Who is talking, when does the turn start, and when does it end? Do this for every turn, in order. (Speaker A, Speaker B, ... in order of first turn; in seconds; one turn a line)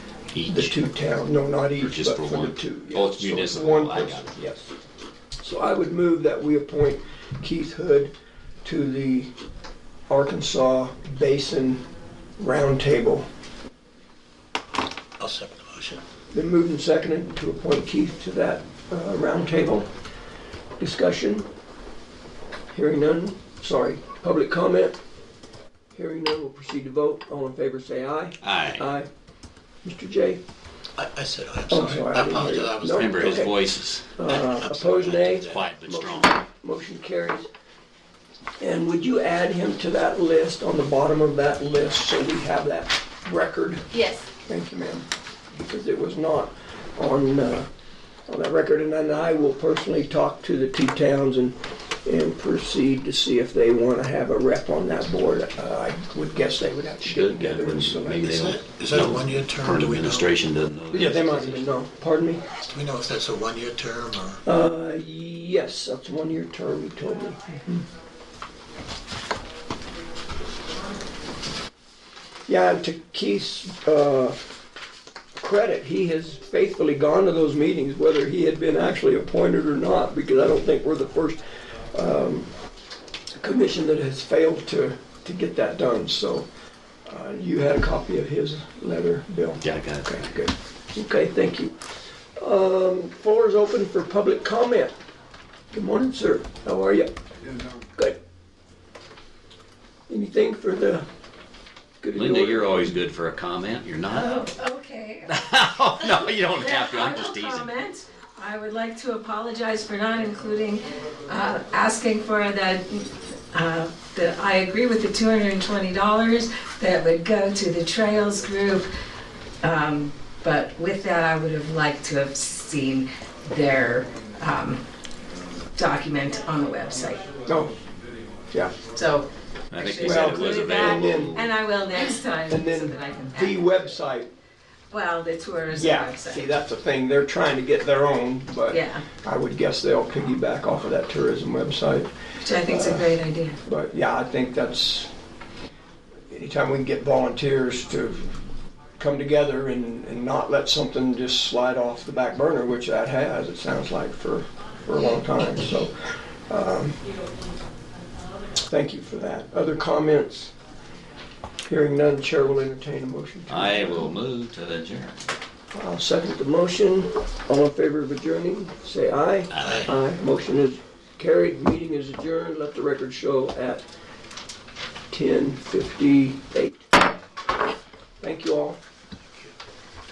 Speaker A: 0.3-0.8
Speaker B: 0.5-4.7
Speaker A: 1.8-4.3
Speaker B: 5.4-8.1
Speaker B: 8.6-9.3
Speaker B: 10.1-11.8
Speaker B: 12.4-13.3
Speaker C: 15.2-16.0
Speaker B: 16.3-19.9
Speaker B: 20.8-21.5
Speaker B: 22.7-25.0
Speaker B: 25.9-29.1
Speaker A: 28.4-28.9
Speaker B: 29.8-30.4
Speaker C: 31.0-33.5
Speaker B: 31.7-33.5
Speaker A: 32.9-34.2
Speaker B: 34.2-37.5
Speaker C: 34.3-35.6
Speaker A: 35.3-36.4
Speaker B: 38.6-47.7
Speaker B: 48.3-58.3
Speaker A: 57.0-61.7
Speaker C: 58.2-60.3
Speaker B: 60.9-62.5
Speaker C: 62.6-64.4
Speaker B: 64.5-67.8
Speaker B: 72.5-74.4
Speaker B: 75.4-82.5
Speaker B: 83.4-86.5
Speaker B: 87.1-91.8
Speaker A: 89.6-90.5
Speaker B: 92.4-94.9
Speaker B: 95.7-97.1
Speaker B: 97.8-98.2
Speaker B: 100.1-101.1
Speaker B: 102.0-103.0
Speaker A: 102.1-104.5
Speaker D: 104.1-105.4
Speaker A: 105.3-107.7
Speaker D: 106.0-118.9
Speaker D: 119.6-124.8
Speaker D: 125.8-127.3
Speaker B: 127.5-127.7
Speaker D: 128.9-133.6
Speaker A: 129.7-131.5
Speaker B: 130.0-131.4
Speaker B: 132.5-134.3
Speaker D: 134.9-136.5
Speaker B: 135.7-145.1
Speaker D: 138.7-139.1
Speaker D: 142.4-143.6
Speaker B: 146.3-148.4
Speaker B: 149.0-155.9
Speaker B: 156.5-157.0
Speaker B: 158.6-160.5
Speaker B: 161.7-164.1
Speaker A: 163.5-165.2
Speaker B: 165.7-173.8
Speaker A: 169.5-169.9
Speaker C: 169.6-169.9
Speaker B: 175.1-176.9
Speaker B: 178.2-178.8